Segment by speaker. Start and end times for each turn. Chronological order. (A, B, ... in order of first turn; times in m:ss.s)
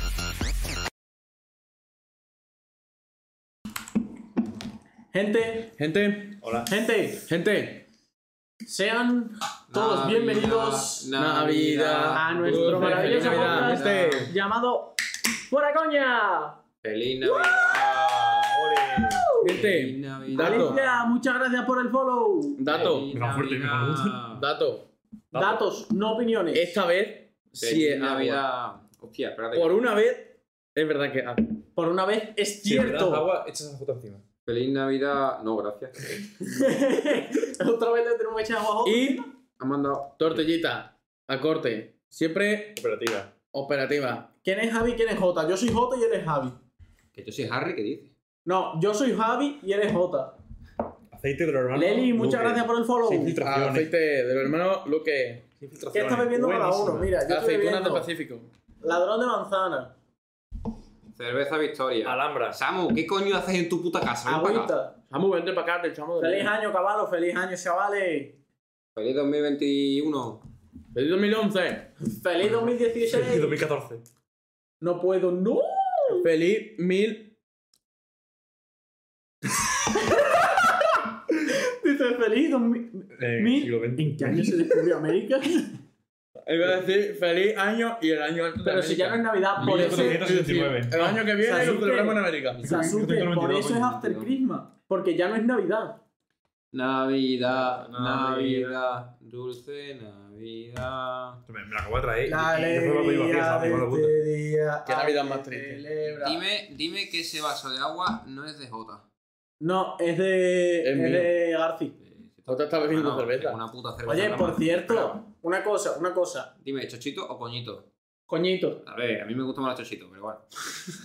0:05.1-0:05.7 A
0:05.8-0:06.4 B
0:06.4-0:06.7 C
0:06.7-0:07.3 A
0:07.2-0:07.8 B
0:08.6-0:11.1 A
0:09.7-0:14.3 D
0:11.2-0:14.3 B
0:12.1-0:15.0 A
0:15.5-0:16.6 A
0:16.8-0:18.6 D
0:18.5-0:19.3 C
0:18.9-0:19.6 A
0:19.4-0:20.8 B
0:19.4-0:21.0 D
0:20.3-0:22.7 A
0:22.6-0:23.1 B
0:22.7-0:24.5 D
0:23.1-0:24.2 C
0:24.3-0:24.9 B
0:25.3-0:26.8 A
0:25.3-0:25.6 C
0:26.5-0:28.4 B
0:27.6-0:29.8 D
0:29.5-0:31.6 B
0:31.8-0:33.3 A
0:32.6-0:34.2 C
0:34.4-0:36.4 D
0:36.5-0:39.3 A
0:38.8-0:39.2 B
0:39.6-0:40.4 D
0:40.2-0:42.8 B
0:42.8-0:43.3 C
0:43.5-0:44.3 B
0:44.4-0:46.6 A
0:47.1-0:48.1 D
0:48.5-0:50.4 A
0:51.1-0:53.9 C
0:51.7-0:53.4 A
0:53.1-0:55.6 B
0:55.7-0:57.1 C
0:55.9-0:58.1 A
0:56.4-0:58.5 B
0:58.8-0:59.9 A
1:01.2-1:04.7 D
1:02.0-1:02.6 C
1:04.2-1:05.0 A
1:05.1-1:06.5 B
1:06.2-1:08.4 A
1:09.0-1:10.4 D
1:10.9-1:11.9 B
1:12.1-1:13.6 A
1:13.1-1:14.0 C
1:14.8-1:16.3 A
1:16.1-1:17.4 B
1:21.5-1:25.7 A
1:23.2-1:24.8 C
1:26.5-1:32.9 B
1:28.6-1:30.3 A
1:29.6-1:34.3 C
1:31.4-1:36.0 A
1:36.7-1:41.4 D
1:37.6-1:38.8 C
1:41.5-1:44.2 C
1:42.3-1:46.4 A
1:44.8-1:45.9 B
1:46.2-1:49.0 D
1:49.6-1:52.0 A
1:50.8-1:51.3 B
1:52.1-1:55.2 D
1:52.5-1:53.6 B
1:54.1-1:56.5 A
1:56.6-1:57.8 D
1:58.3-1:58.8 A
1:58.8-2:00.4 D